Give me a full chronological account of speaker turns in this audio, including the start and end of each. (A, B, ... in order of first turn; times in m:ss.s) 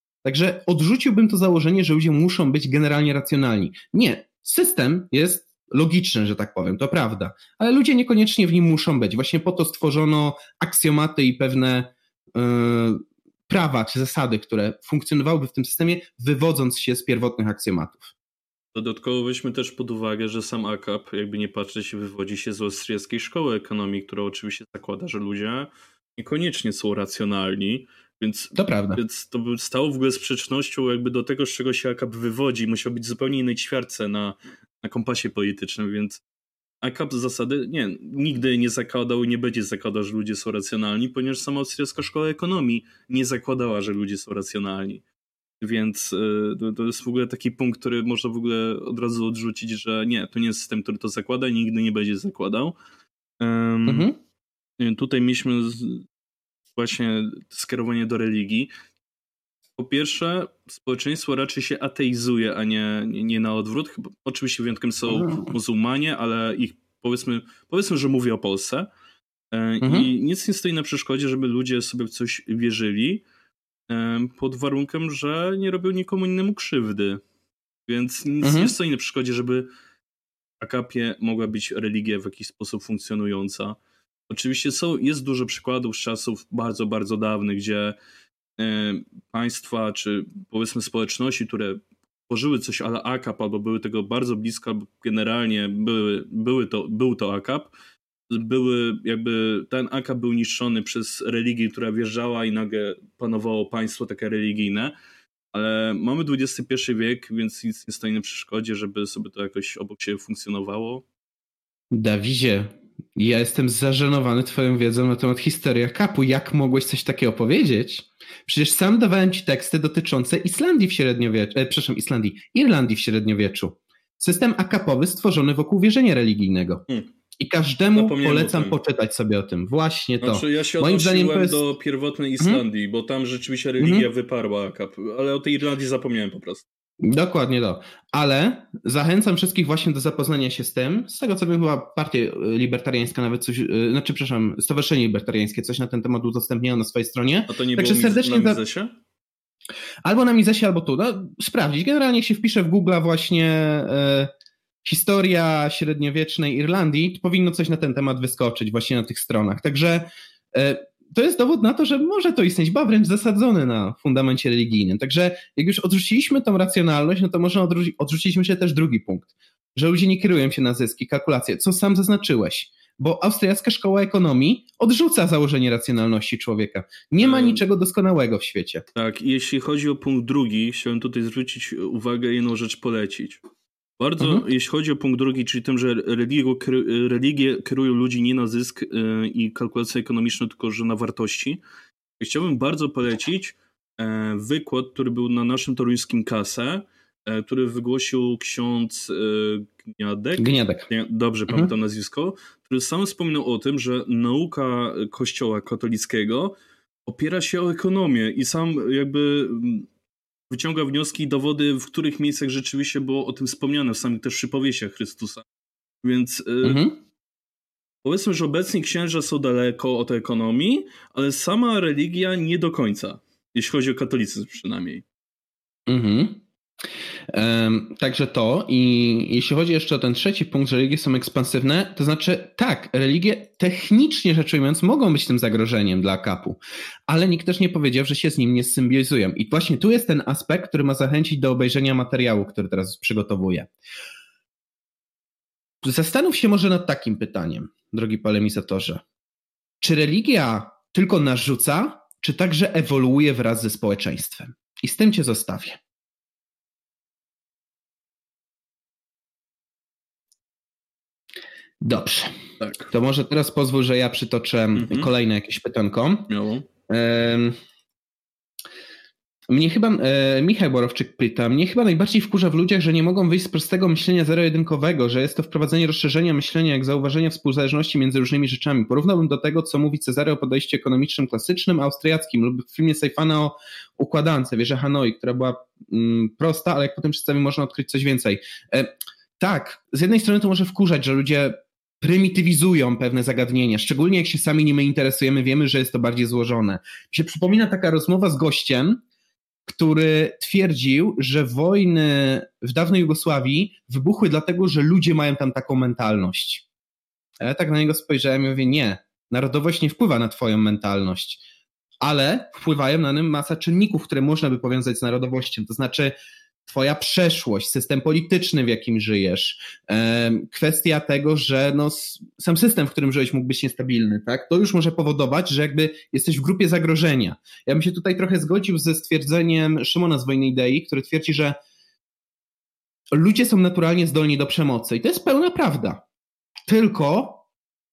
0:00.2-0:18.1 A
0:18.7-0:36.2 B
0:28.6-0:29.0 A
0:36.8-0:45.0 B
0:45.6-0:52.8 B
0:53.4-0:54.1 B
0:53.9-0:54.2 A
0:54.8-0:56.1 B
0:56.8-0:58.7 B
0:59.8-1:08.9 B
1:05.2-1:05.5 A
1:09.5-1:13.2 B
1:09.8-1:10.1 A
1:13.9-1:17.2 B
1:17.9-1:19.7 B
1:18.4-1:18.7 A
1:20.6-1:23.8 B
1:24.3-1:28.0 B
1:28.6-1:37.7 B
1:38.3-1:44.9 B
1:45.5-1:51.0 B
1:51.9-2:06.8 A
2:07.4-2:11.6 A
2:07.9-2:08.8 B
2:10.2-2:16.6 B
2:13.8-2:14.1 A
2:17.0-2:28.6 A
2:27.5-2:28.9 B
2:30.0-2:34.3 A
2:34.8-2:58.9 A
2:57.2-2:57.6 B
2:59.0-3:03.4 B
3:04.0-3:11.6 B
3:04.2-3:04.4 A
3:12.2-3:26.5 B
3:20.4-3:20.9 A
3:27.1-3:29.9 B
3:30.5-3:35.4 B
3:36.0-3:36.8 B
3:36.6-3:37.0 A
3:38.0-3:45.0 B
3:45.9-3:46.4 A
3:47.3-4:03.7 A
4:05.8-4:09.0 A
4:09.8-4:15.8 A
4:21.8-4:22.4 A
4:22.6-4:22.9 B
4:22.9-4:26.3 A
4:24.8-4:25.1 B
4:26.3-4:26.7 B
4:26.9-4:27.6 A
4:29.5-4:59.0 A
4:59.7-5:06.6 A
5:07.4-5:11.4 A
5:12.0-5:16.1 A
5:16.7-5:31.6 A
5:33.1-5:36.0 A
5:36.7-5:37.4 A